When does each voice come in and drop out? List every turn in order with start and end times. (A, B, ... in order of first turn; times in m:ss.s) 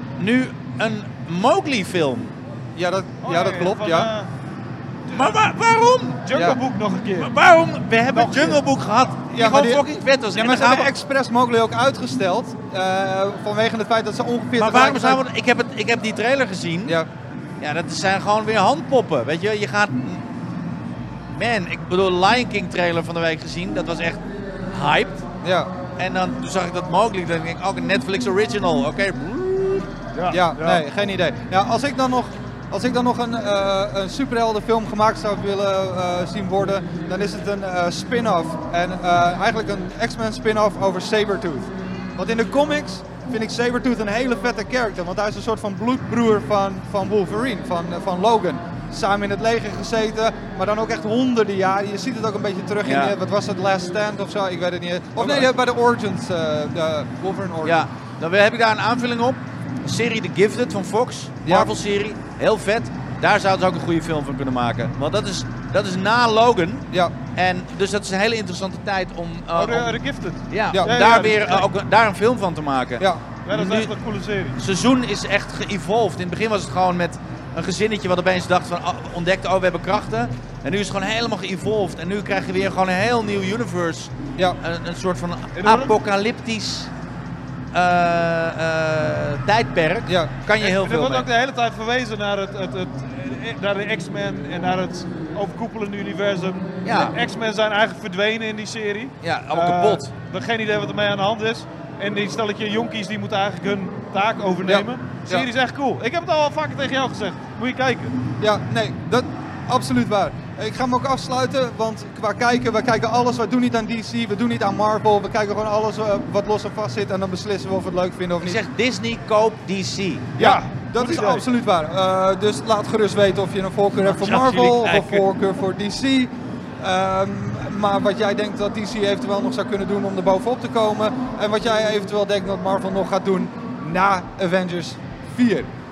0:00.2-0:02.4 A
0:02.8-0:04.1 B
0:03.2-0:04.3 C
0:05.1-0:06.2 A
0:06.2-0:07.3 C
0:06.3-0:06.6 B
0:07.2-0:10.9 A
0:08.1-0:08.6 C
0:09.3-0:15.2 B
0:14.6-0:17.0 A
0:17.6-0:20.3 A
0:21.3-0:25.3 A
0:25.4-0:25.7 B
0:26.0-0:29.9 A
0:30.2-0:30.8 C
0:30.3-0:57.9 B
0:52.8-0:53.2 A
0:55.2-0:55.4 C
0:57.6-1:09.9 A
1:01.4-1:01.7 B
1:09.6-1:11.7 C
1:10.5-1:13.9 A
1:10.7-1:11.0 B
1:13.4-1:14.6 C
1:14.6-1:26.9 A
1:25.6-1:25.9 C
1:27.7-1:31.3 A
1:30.6-1:48.2 C
1:36.8-1:37.2 A
1:39.2-1:40.1 A
1:44.7-1:45.5 B
1:48.4-1:58.6 B
1:58.4-2:00.4 A
2:00.4-2:01.5 C
2:00.4-2:15.7 B
2:04.1-2:05.2 C